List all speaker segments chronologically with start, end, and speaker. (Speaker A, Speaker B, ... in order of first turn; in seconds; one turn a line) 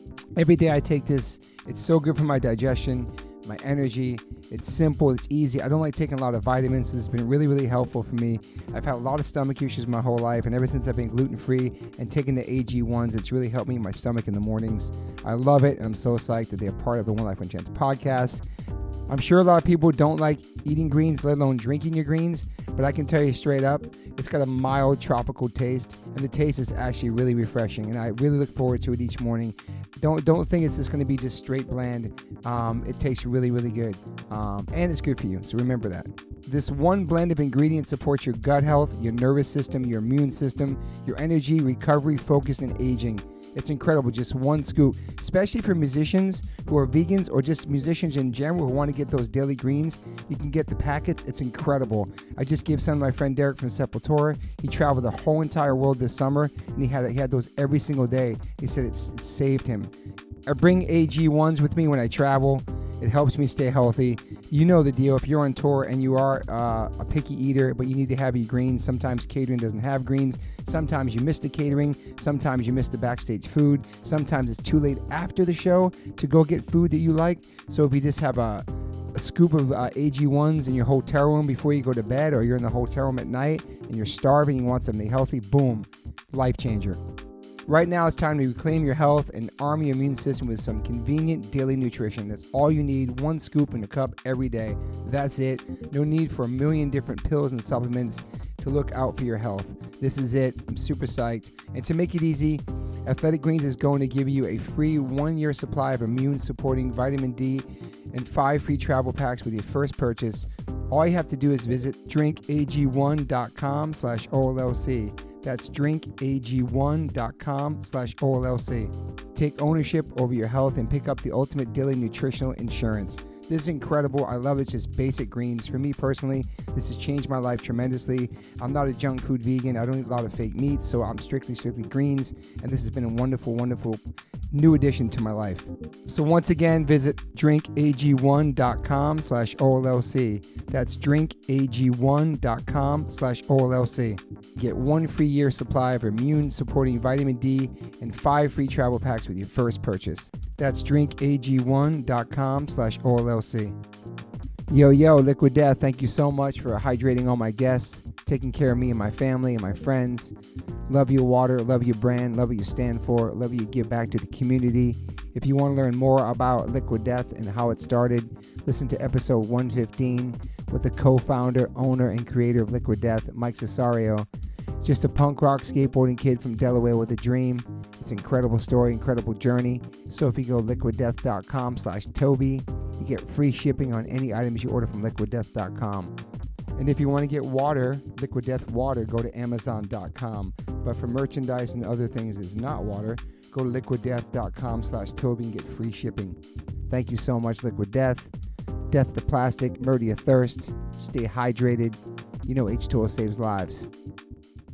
Speaker A: 0.4-18.4
Speaker A: 19.1-59.9
Speaker A: 60.5-87.0
Speaker A: 87.7-153.8
Speaker A: 154.7-160.3
Speaker A: 160.9-174.3
Speaker A: 174.8-186.2
Speaker A: 186.8-198.3
Speaker A: 198.9-203.9